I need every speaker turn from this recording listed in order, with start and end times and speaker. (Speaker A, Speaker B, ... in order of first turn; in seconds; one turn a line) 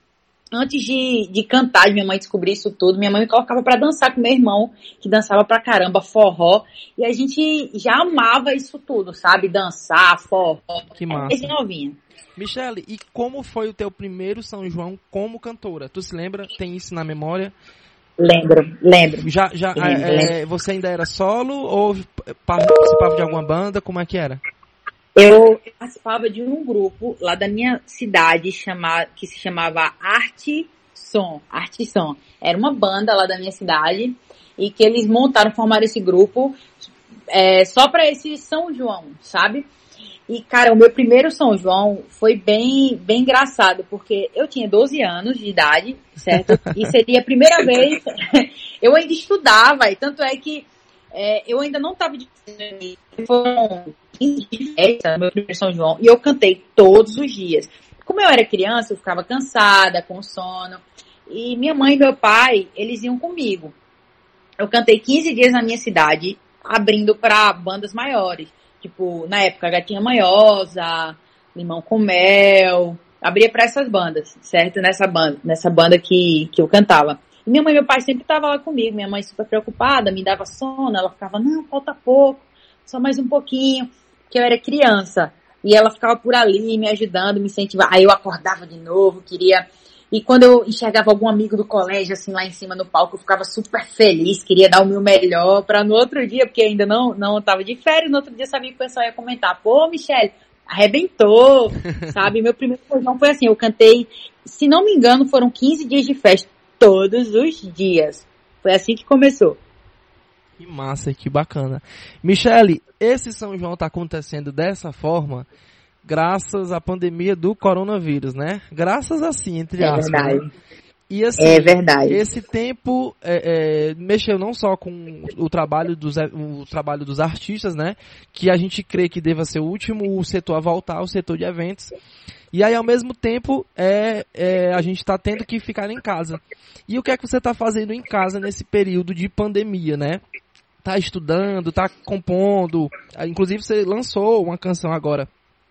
Speaker A: 0.5-12.0
Speaker B: 10.9-11.5
Speaker B: 12.3-17.5
Speaker A: 18.2-20.3
Speaker B: 19.2-24.4
Speaker A: 25.2-36.6
Speaker A: 37.3-39.7
Speaker A: 40.3-63.8
Speaker B: 46.3-46.9
Speaker A: 64.6-109.6
Speaker B: 110.6-115.5
Speaker B: 116.0-120.4
Speaker A: 119.8-120.5
Speaker B: 121.1-131.9
Speaker A: 121.4-122.2
Speaker B: 132.5-140.2
Speaker B: 140.8-145.3